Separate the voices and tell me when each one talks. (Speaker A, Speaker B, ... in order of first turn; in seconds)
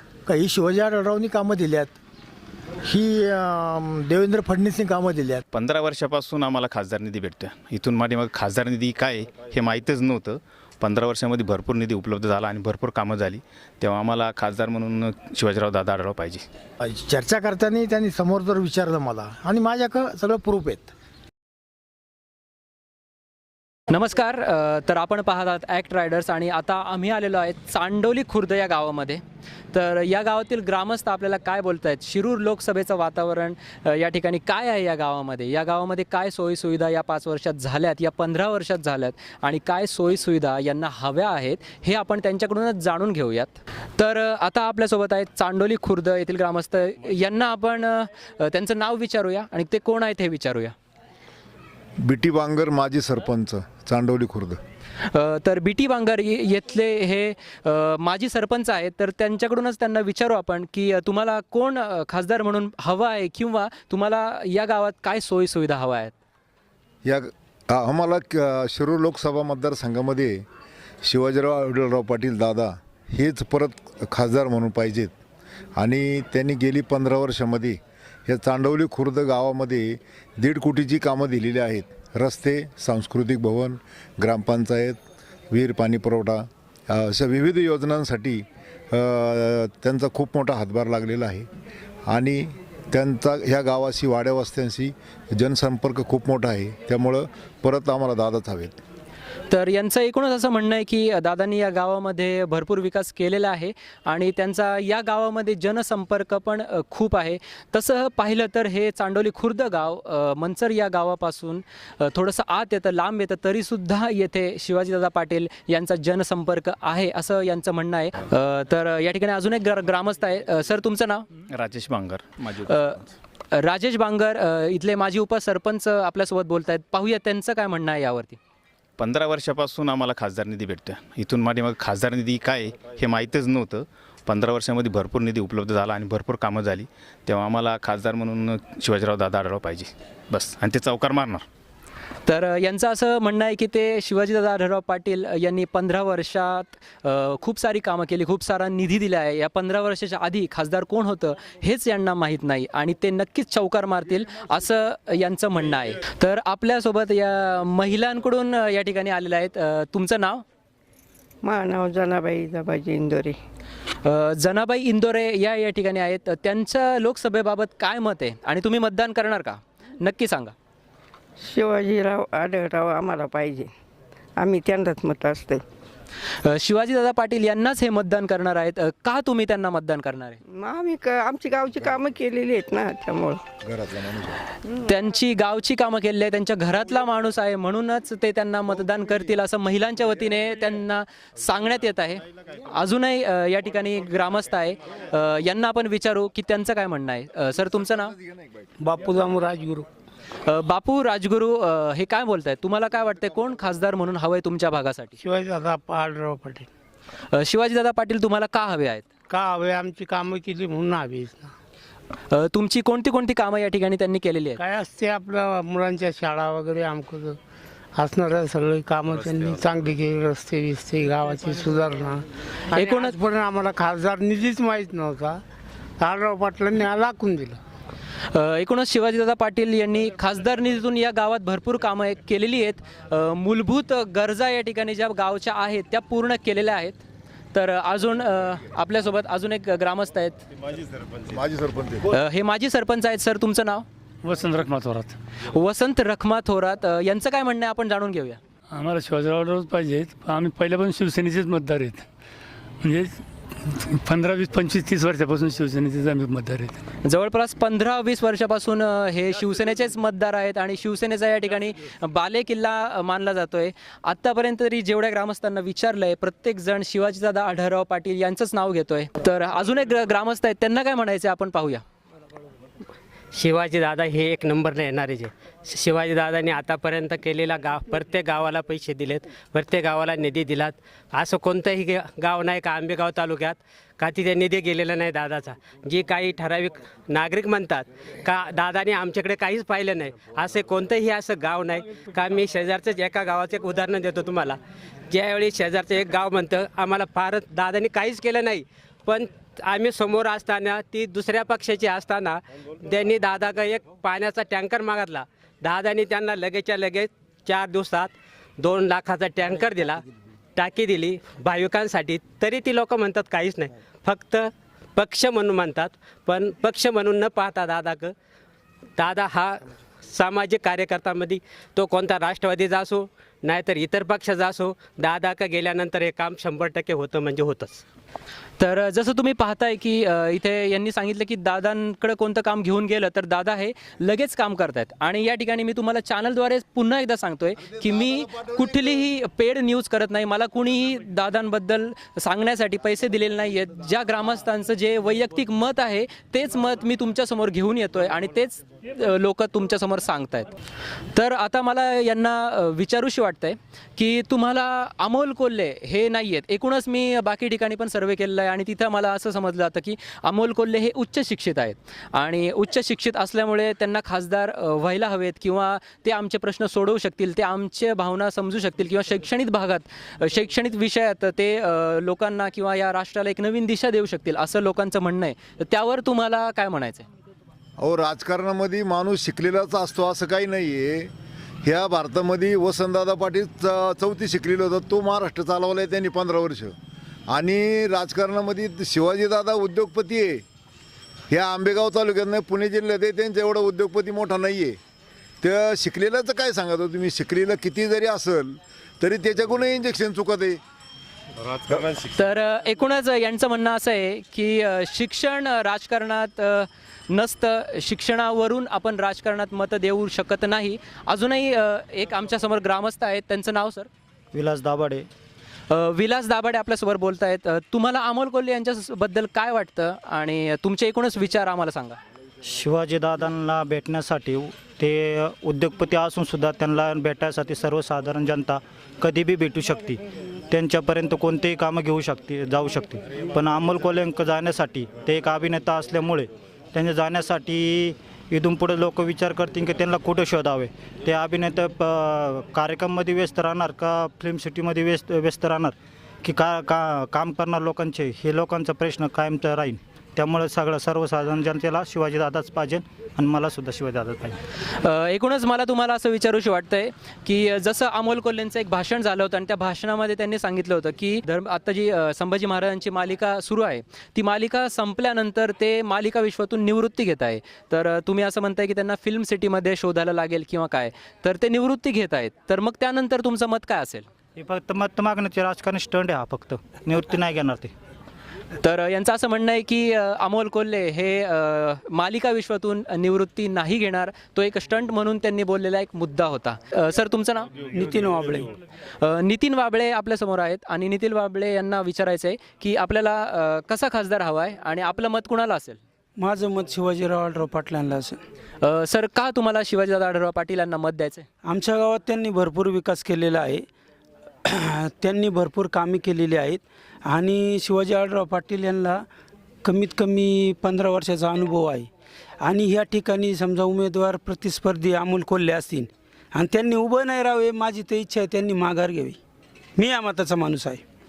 Speaker A: 0.2-2.0, 2.8-5.4, 16.8-20.9
Speaker B: 5.5-16.4, 121.5-122.7, 129.0-141.4, 414.3-415.1, 422.4-430.0, 430.5-454.4, 474.4-477.7
Speaker C: 23.9-29.2, 29.7-50.7, 55.1-66.1, 99.5-121.2, 122.7-123.0, 123.5-128.4, 142.2-160.4, 164.0-170.5, 176.4-180.4, 184.8-198.2, 200.4-205.2, 207.3-209.1, 212.3-214.6, 222.7-223.1, 228.3-237.0, 237.5-240.4, 242.1-243.8, 245.5-248.4, 257.0-271.8, 328.6-350.5, 351.1-377.1, 402.1-413.9, 415.7-422.0, 454.7-474.1, 478.6-487.5, 489.0-495.8, 498.6-501.3
Speaker D: 52.0-54.6, 67.0-70.4, 71.0-75.1, 75.8-85.0, 85.5-91.5, 92.1-98.8, 183.7-184.4, 241.2-242.1, 377.8-381.1, 381.6-386.7, 387.3-390.4, 391.3-394.8, 395.4-400.6
Speaker E: 161.4-163.4, 171.4-173.7, 174.4-175.6, 180.4-183.4
Speaker F: 198.8-199.9, 205.2-206.7, 209.3-211.5, 214.6-217.4, 217.9-225.4, 226.0-227.6
Speaker G: 244.2-245.2, 248.7-252.1, 252.8-256.8
Speaker H: 273.3-294.6, 295.1-310.0, 310.6-318.1, 319.0-327.8
Speaker I: 487.7-488.5, 496.2-498.2, 501.4-503.6, 504.4-509.0, 509.6-511.9, 512.4-519.2, 519.8-520.8